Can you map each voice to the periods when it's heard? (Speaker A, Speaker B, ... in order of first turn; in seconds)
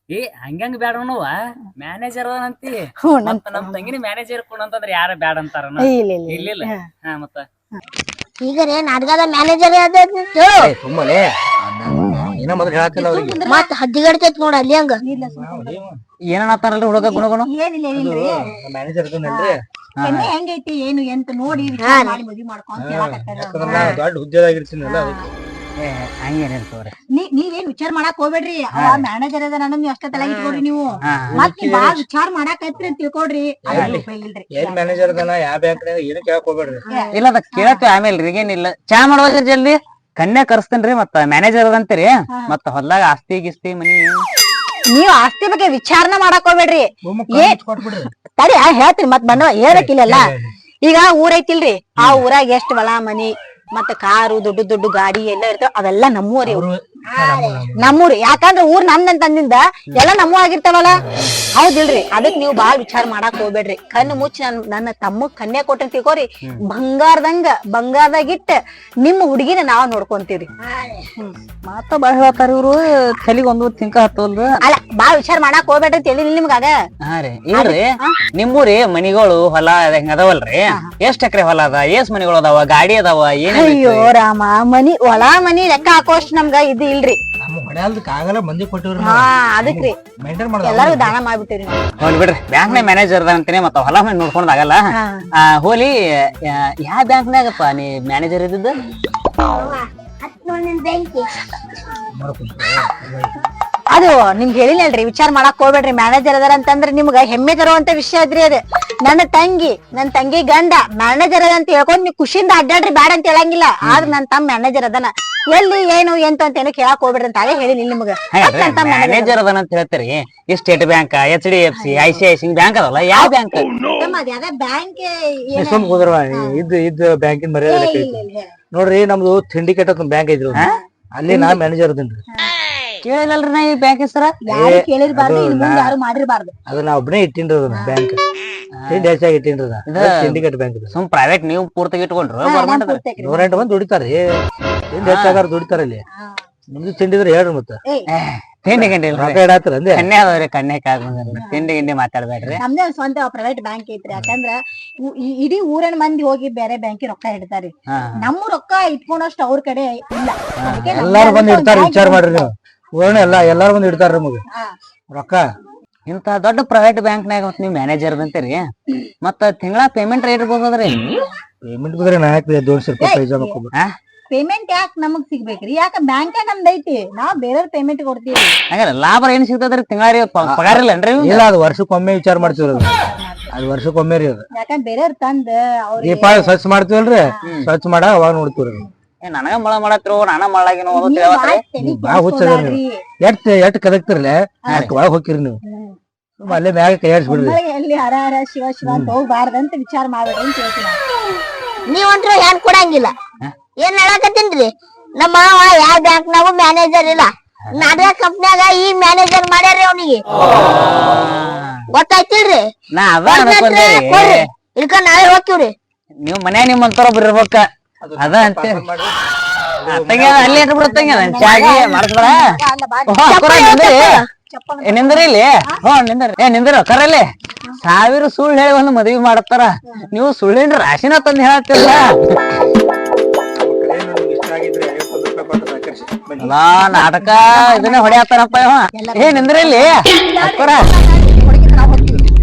Speaker A: 0.1-7.5, 16.3-17.5, 20.0-20.3, 23.7-24.0, 25.8-26.9, 28.8-29.0, 31.1-31.5, 33.7-34.0, 37.1-44.2, 52.0-52.2, 61.2-61.4, 71.6-74.5, 77.0-84.1, 92.0-94.8, 95.4-95.9, 96.5-98.8, 113.8-114.2, 118.3-123.7, 133.0-134.4, 138.7-139.1, 139.9-143.0, 145.0-145.4, 148.1-149.4, 149.9-152.6, 157.9-158.3, 160.6-161.1, 166.1-168.6, 169.2-171.0, 178.7-181.5, 189.2-191.6, 207.8-208.0, 211.1-211.8, 212.9-214.5, 216.2-217.7, 218.2-218.9, 219.9-222.4, 223.1-224.2, 224.9-227.2, 227.8-232.1, 236.4-240.8
Speaker B: 3.1-3.9, 5.8-6.8, 12.9-13.7, 15.0-15.9, 17.0-18.5, 19.2-24.0, 24.9-25.2, 27.1-35.2, 36.9-37.8, 44.9-47.6, 48.4-50.2, 50.8-56.6, 57.8-71.3, 74.6-76.7, 77.5-78.2, 83.5-87.2, 89.0-89.9, 90.6-91.8, 95.0-95.2, 103.9-119.4, 121.8-122.2, 123.1-126.6, 127.7-128.5, 131.3-131.6, 134.4-136.5, 137.7-138.0, 142.4-143.7, 146.2-146.4, 151.4-151.7, 152.6-162.5, 173.0-173.6, 174.3-178.6, 182.4-183.5, 184.5-186.6, 190.9-193.0, 194.6-194.9, 195.7-196.0, 197.2-201.0, 220.8-223.3, 224.5-225.8, 236.9-242.3
Speaker C: 8.4-10.8, 13.4-15.0, 21.8-22.2, 57.1-57.6, 99.5-101.3, 201.9-203.1, 203.8-210.2, 211.9-212.6, 213.2-215.7, 223.2-224.3
Speaker D: 10.6-13.4, 15.2-16.0, 17.9-19.6, 22.8-25.2, 31.2-32.0, 33.7-36.9, 47.0-48.1, 49.3-50.5, 56.4-58.0, 87.4-91.2, 102.2-103.3, 125.6-128.2, 128.7-132.2, 134.5-136.0, 136.7-138.2, 138.9-140.9, 143.2-144.2, 144.9-146.0, 146.7-147.8, 148.7-150.1, 160.9-164.4, 165.1-165.4, 171.7-173.7, 180.4-183.0, 183.5-184.4, 186.0-188.8, 191.8-195.6, 196.4-197.6, 218.0-219.1, 219.8-220.7, 233.6-236.5